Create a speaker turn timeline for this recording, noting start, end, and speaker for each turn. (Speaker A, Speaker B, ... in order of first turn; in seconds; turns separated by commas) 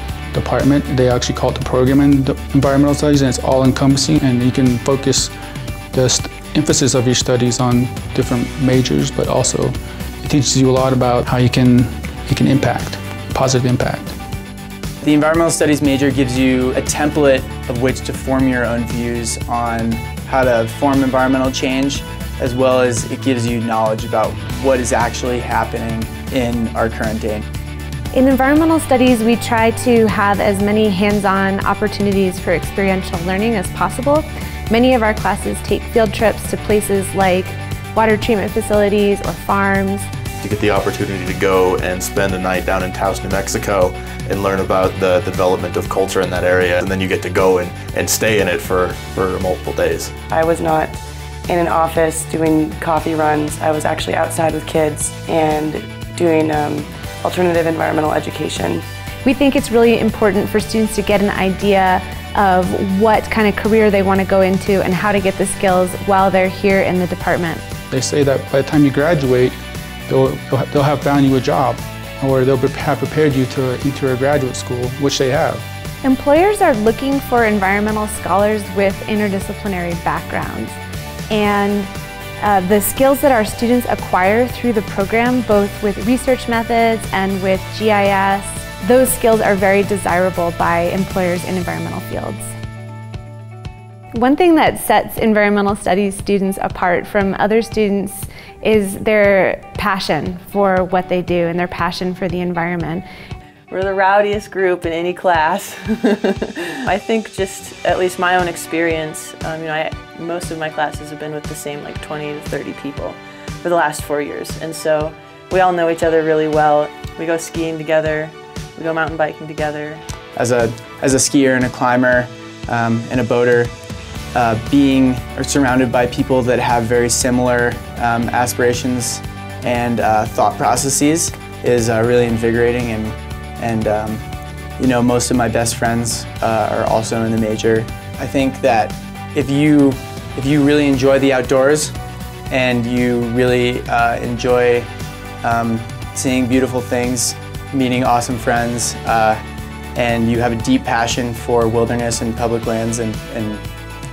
Speaker A: 0.3-5.3, Speaker A: 5.9-14.1, Speaker B: 15.0-27.4, Speaker C: 28.1-40.1, Speaker D: 40.4-50.1, Speaker E: 50.3-51.0, Speaker E: 51.5-58.8, Speaker C: 59.2-67.6, Speaker A: 67.9-69.6, Speaker A: 70.1-75.7, Speaker C: 76.0-80.8, Speaker C: 81.3-81.9, Speaker C: 82.4-92.5, Speaker C: 94.1-103.0, Speaker F: 103.7-120.0, Speaker B: 120.3-123.7, Speaker B: 124.3-134.2, Speaker B: 134.8-141.9, Speaker B: 142.5-144.9, Speaker B: 145.4-149.4, Speaker B: 149.9-153.6